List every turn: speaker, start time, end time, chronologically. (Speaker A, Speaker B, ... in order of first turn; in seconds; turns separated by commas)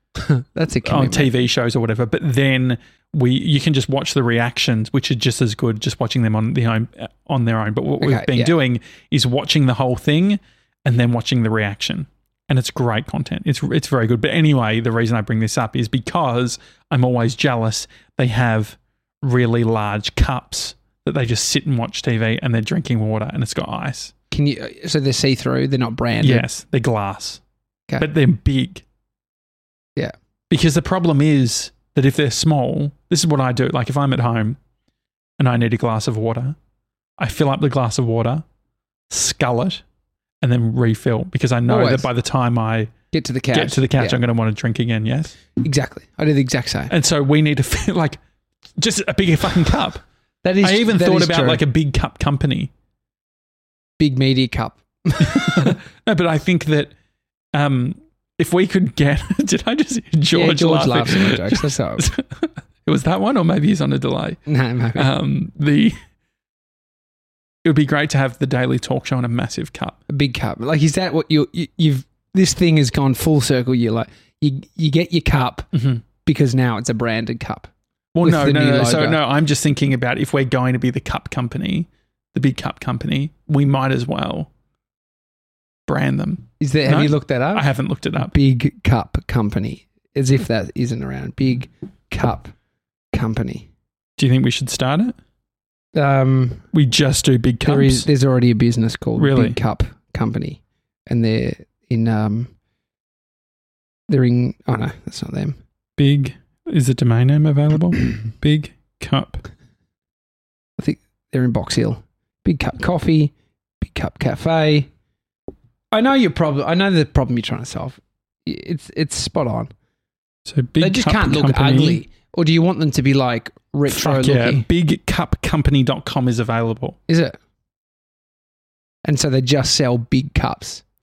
Speaker A: 0.2-1.3, Speaker B: 0.8-24.1, Speaker A: 8.0-8.6, Speaker A: 24.3-26.5, Speaker B: 26.2-27.4, Speaker B: 28.0-28.9, Speaker B: 30.5-34.6, Speaker B: 35.4-36.6, Speaker B: 37.2-38.4, Speaker B: 39.1-39.8, Speaker B: 40.4-42.9, Speaker A: 41.7-42.1, Speaker A: 43.1-44.2, Speaker B: 43.5-45.4, Speaker A: 45.6-46.9, Speaker B: 46.9-48.2, Speaker B: 48.8-50.0, Speaker A: 50.4-51.6, Speaker B: 50.6-52.7, Speaker A: 54.0-55.8, Speaker B: 55.2-56.9, Speaker B: 57.5-64.4, Speaker A: 60.3-62.1, Speaker A: 64.5-65.1, Speaker B: 65.0-66.0, Speaker B: 67.6-70.0, Speaker A: 70.1-75.7, Speaker B: 75.7-76.0, Speaker A: 76.2-77.7, Speaker B: 78.1-84.5, Speaker A: 78.2-79.2, Speaker B: 85.9-88.3, Speaker A: 86.6-87.7, Speaker A: 88.2-92.5, Speaker A: 93.1-93.7, Speaker B: 94.2-95.2, Speaker A: 95.9-96.7, Speaker B: 96.7-98.1, Speaker A: 97.7-102.5, Speaker B: 99.2-99.6, Speaker A: 104.1-105.6, Speaker B: 106.0-109.5, Speaker A: 110.8-114.9, Speaker A: 115.9-119.7, Speaker B: 120.5-122.0, Speaker A: 120.8-124.7, Speaker B: 123.9-127.0, Speaker A: 127.1-127.4, Speaker A: 129.1-130.8